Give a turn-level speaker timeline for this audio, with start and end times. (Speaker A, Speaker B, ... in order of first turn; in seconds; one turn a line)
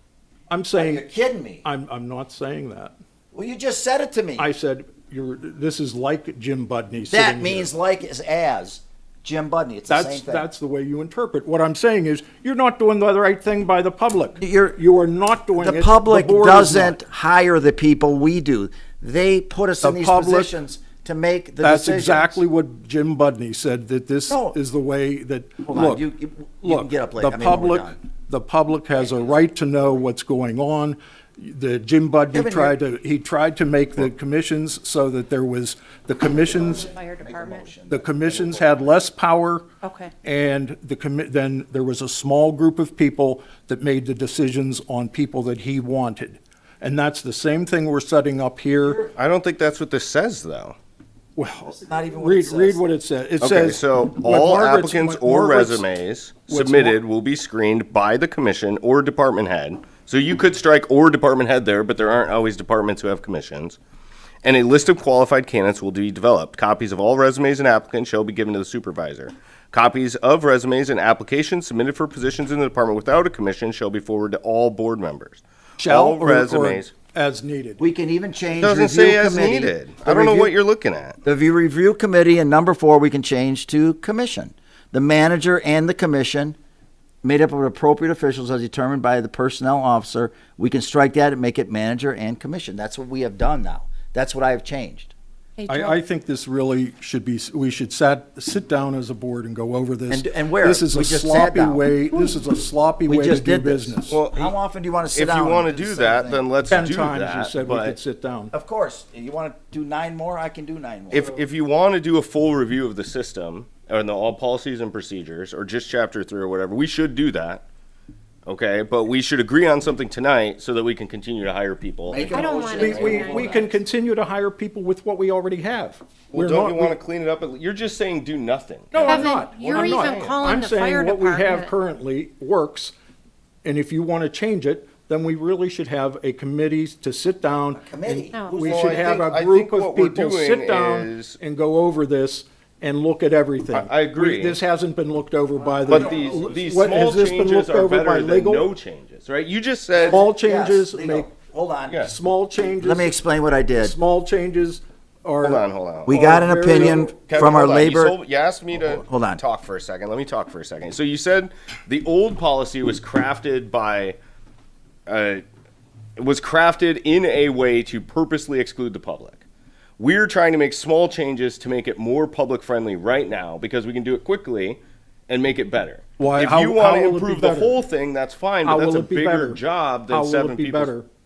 Speaker A: 0.5-1.0
Speaker B: 0.7-1.6
Speaker A: 1.6-2.9
Speaker B: 3.3-4.5
Speaker A: 4.4-7.7
Speaker B: 7.1-10.5
Speaker A: 9.9-17.0
Speaker B: 14.4-14.8
Speaker B: 15.6-22.4
Speaker A: 19.8-20.5
Speaker A: 21.6-26.0
Speaker B: 24.3-24.6
Speaker B: 25.6-27.9
Speaker A: 26.6-36.9
Speaker B: 28.9-30.0
Speaker B: 32.3-32.8
Speaker B: 36.4-39.0
Speaker C: 36.9-37.7
Speaker A: 37.9-39.6
Speaker C: 39.8-40.1
Speaker A: 40.2-49.0
Speaker B: 48.8-49.1
Speaker D: 49.2-50.8
Speaker A: 51.4-55.9
Speaker B: 51.8-52.8
Speaker D: 53.4-63.8
Speaker A: 56.5-57.0
Speaker D: 64.4-76.9
Speaker A: 75.8-77.8
Speaker B: 77.8-80.5
Speaker D: 78.6-81.2
Speaker B: 81.2-86.6
Speaker B: 87.2-95.1
Speaker C: 95.6-96.0
Speaker A: 95.7-104.2
Speaker B: 100.1-101.9
Speaker B: 103.0-106.4
Speaker D: 104.1-104.5
Speaker D: 105.1-108.0
Speaker A: 106.6-108.5
Speaker B: 108.5-111.3
Speaker D: 111.1-117.6
Speaker D: 118.5-123.2
Speaker B: 122.0-123.7
Speaker C: 122.3-123.7
Speaker A: 122.6-127.0
Speaker D: 126.3-130.5
Speaker A: 128.9-132.9
Speaker C: 129.0-131.7
Speaker A: 133.6-148.7
Speaker B: 137.8-139.3
Speaker C: 138.3-138.7
Speaker D: 138.6-141.4
Speaker D: 143.7-144.6
Speaker B: 145.8-146.8
Speaker D: 145.8-150.2
Speaker B: 149.9-152.1
Speaker A: 150.1-151.3
Speaker A: 152.0-153.2
Speaker B: 152.8-153.9
Speaker A: 153.8-157.3
Speaker D: 155.4-164.2
Speaker B: 156.1-158.2
Speaker B: 158.7-159.4
Speaker D: 165.1-165.4
Speaker D: 166.2-169.4
Speaker D: 170.0-180.9
Speaker A: 176.2-177.8
Speaker A: 178.6-181.1